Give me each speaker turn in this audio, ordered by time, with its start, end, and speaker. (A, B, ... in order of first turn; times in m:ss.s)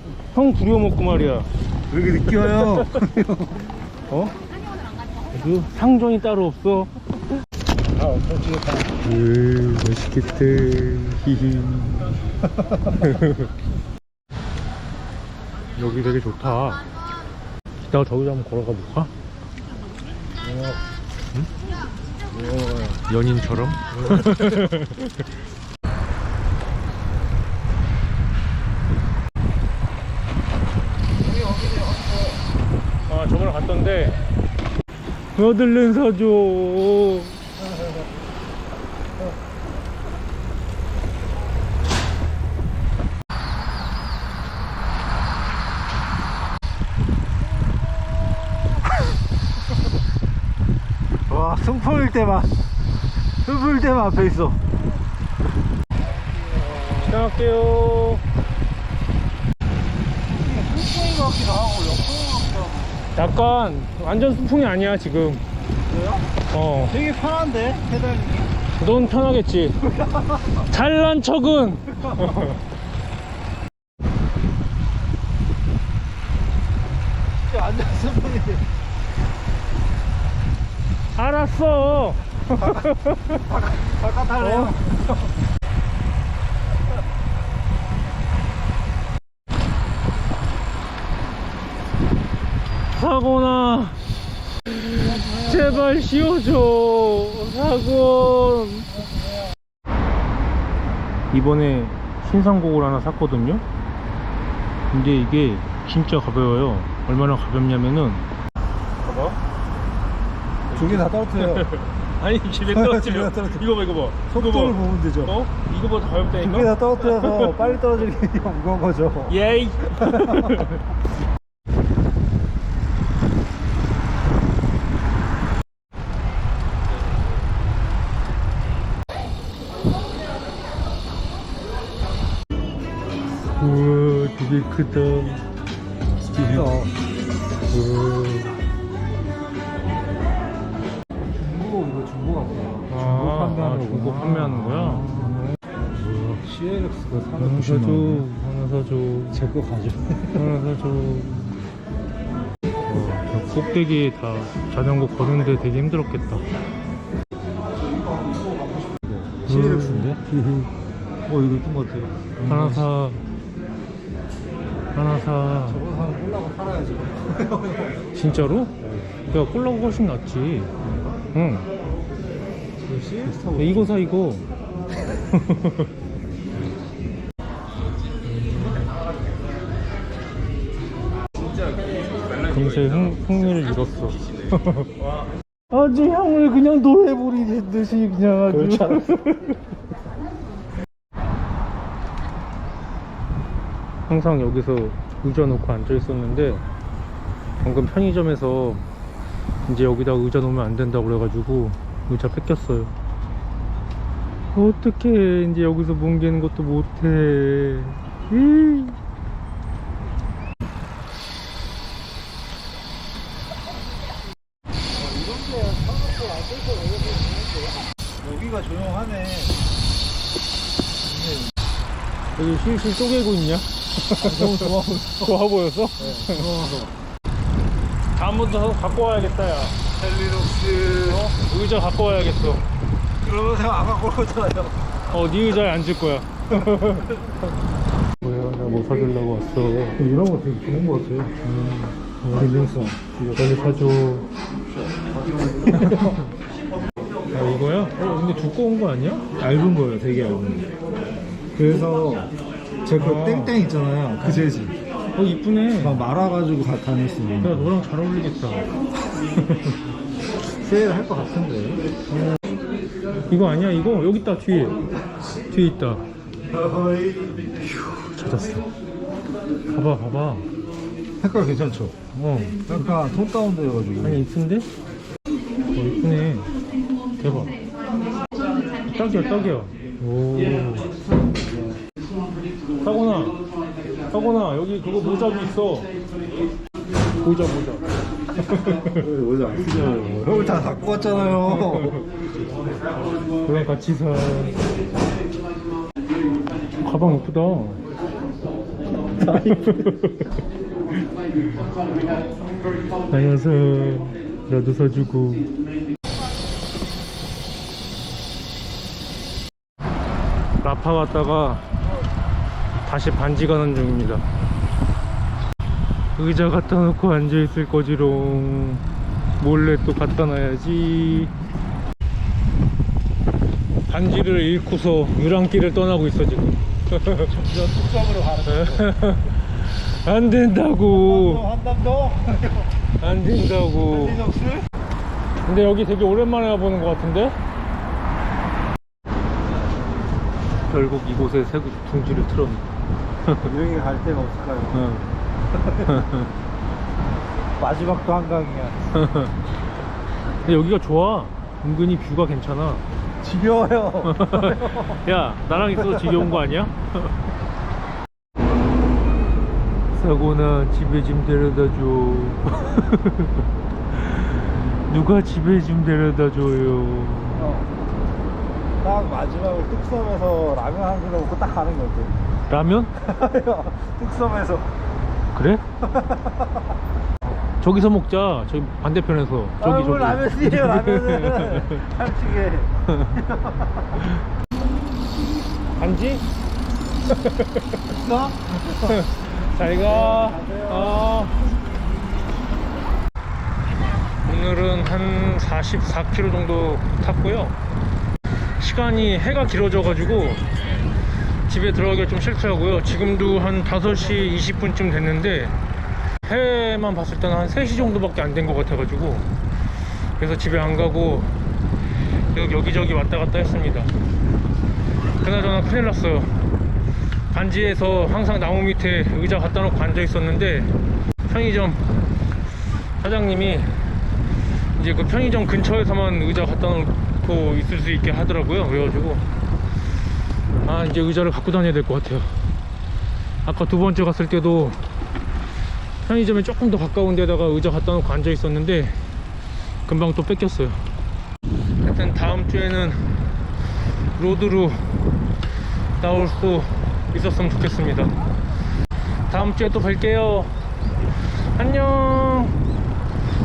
0:00.3-0:01.5 A
0:01.9-0:03.7 B
0:02.4-0:03.1 A
0:04.1-0:04.3 A
0:05.3-0:06.9 A
0:08.0-0:08.9 B
0:09.0-0:12.1 A
0:12.8-0:13.5 A
0:15.8-0:16.8 A
0:17.9-0:19.1 A
0:20.4-0:20.8 B
0:22.3-0:23.0 B
0:23.1-0:25.2 A
0:23.9-0:24.7 B
0:31.3-0:32.2 B
0:33.1-0:34.2 A
0:35.3-0:37.4 A
0:51.3-0:52.6 B
0:53.4-0:54.6 B
0:56.4-0:57.2 B
0:57.0-0:58.2 A
1:00.3-1:02.9 B
1:03.1-1:05.4 A
1:05.8-1:06.2 B
1:06.5-1:06.9 A
1:06.9-1:08.5 B
1:08.8-1:09.8 A
1:09.8-1:10.6 B
1:10.6-1:12.6 A
1:12.1-1:12.5 B
1:17.4-1:18.6 B
1:21.1-1:23.5 A
1:22.6-1:25.0 B
1:24.4-1:24.8 A
1:32.9-1:34.0 A
1:34.6-1:39.0 A
1:35.0-1:35.9 B
1:41.3-1:43.6 A
1:44.9-1:48.2 A
1:49.0-1:49.4 A
1:50.7-1:57.7 A
1:50.7-1:51.7 B
1:52.7-1:53.6 B
1:54.3-1:55.4 B
1:56.4-1:59.4 B
1:59.3-2:00.8 A
1:59.9-2:00.7 B
2:13.5-2:15.4 A
2:16.3-2:16.7 A
2:16.4-2:16.9 B
2:17.7-2:18.6 A
2:21.3-2:25.5 B
2:22.9-2:25.6 A
2:26.0-2:28.2 B
2:27.4-2:29.4 A
2:29.3-2:30.6 B
2:30.3-2:31.6 A
2:32.8-2:36.4 A
2:37.8-2:40.7 B
2:39.4-2:40.2 A
2:41.2-2:42.8 B
2:42.4-2:43.2 A
2:44.9-2:45.8 A
2:45.6-2:47.9 B
2:48.1-2:50.7 A
2:51.3-2:51.7 A
2:52.8-2:54.0 B
2:53.3-2:54.4 A
2:55.3-2:55.9 A
2:58.4-2:58.8 A
3:02.3-3:05.1 A
3:05.7-3:09.6 A
3:08.3-3:09.2 B
3:14.1-3:16.6 A
3:17.6-3:18.8 A
3:19.6-3:22.9 A
3:24.5-3:29.0 A
3:34.9-3:39.6 B
3:41.0-3:41.5 B
3:42.4-3:46.5 A
3:44.2-3:45.4 B
3:46.0-3:46.9 B
3:48.1-3:49.7 A
3:50.0-3:51.3 B
3:51.1-3:52.6 A
3:53.2-3:54.8 B
3:55.1-3:57.2 A
3:58.2-4:00.0 A
4:00.0-4:01.3 B
4:01.4-4:04.3 A
4:02.3-4:03.7 B
4:05.4-4:06.2 B
4:05.8-4:06.2 A
4:07.3-4:09.2 A
4:09.4-4:10.7 B
4:11.5-4:12.3 B
4:12.8-4:14.7 B
4:13.0-4:13.6 A
4:15.1-4:16.0 A
4:15.8-4:17.8 B
4:17.4-4:18.7 A
4:20.5-4:21.8 B
4:23.3-4:24.8 A
4:25.5-4:26.0 A
4:26.6-4:27.2 B
4:28.1-4:28.6 A
4:29.7-4:30.4 A
4:31.2-4:34.2 B
4:34.0-4:34.7 A
4:35.7-4:36.5 A
4:37.2-4:37.6 A
4:38.9-4:40.9 A
4:41.3-4:41.8 B
4:42.8-4:43.4 A
4:44.1-4:45.9 A
4:47.2-4:49.0 A
4:48.5-4:52.0 B
4:49.6-4:50.3 A
4:51.4-4:52.0 A
4:53.4-4:54.6 A
4:56.8-4:57.8 A
4:59.2-4:59.9 B
4:59.2-5:00.3 A
5:03.1-5:05.5 A
5:10.6-5:11.6 A
5:12.8-5:14.2 A
5:16.2-5:18.8 A
5:19.4-5:21.3 A
5:23.9-5:27.3 A
5:27.3-5:28.9 B
5:28.5-5:31.4 A
5:30.8-5:32.7 B
5:33.0-5:34.3 A
5:33.9-5:34.7 B
5:35.4-5:37.4 A
5:40.7-5:42.7 A
5:43.4-5:44.8 B
5:44.7-5:45.1 A
5:45.5-5:46.1 B
5:45.8-5:46.3 A
5:47.6-5:48.8 B
5:48.9-5:49.3 A
5:50.4-5:52.8 A
5:53.2-5:55.0 B
5:54.0-5:57.1 A
5:55.8-5:56.3 B
5:59.9-6:07.5 A
6:07.4-6:07.7 B
6:08.8-6:12.1 B
6:12.5-6:12.9 A
6:12.9-6:14.7 B
6:15.3-6:15.6 A
6:15.8-6:16.4 B
6:17.6-6:21.8 A
6:19.6-6:24.0 B
6:25.8-6:26.2 A
6:27.1-6:27.8 A
6:27.9-6:29.0 B
6:28.9-6:31.4 A
6:29.6-6:31.0 B
6:34.2-6:37.6 A
6:38.6-6:40.5 A
6:41.5-6:45.6 A
6:46.2-6:49.3 A
6:50.2-6:51.4 A
6:52.3-6:53.9 A
6:55.2-6:56.4 A
6:57.3-7:01.9 A
7:03.0-7:03.9 A
7:04.8-7:09.2 A
7:10.6-7:12.4 A
7:13.4-7:14.8 A
7:16.0-7:19.1 A
7:19.9-7:20.8 A
7:21.8-7:23.1 A
7:24.2-7:25.0 A
7:26.0-7:28.1 A
7:29.3-7:30.5 A
7:31.5-7:32.6 A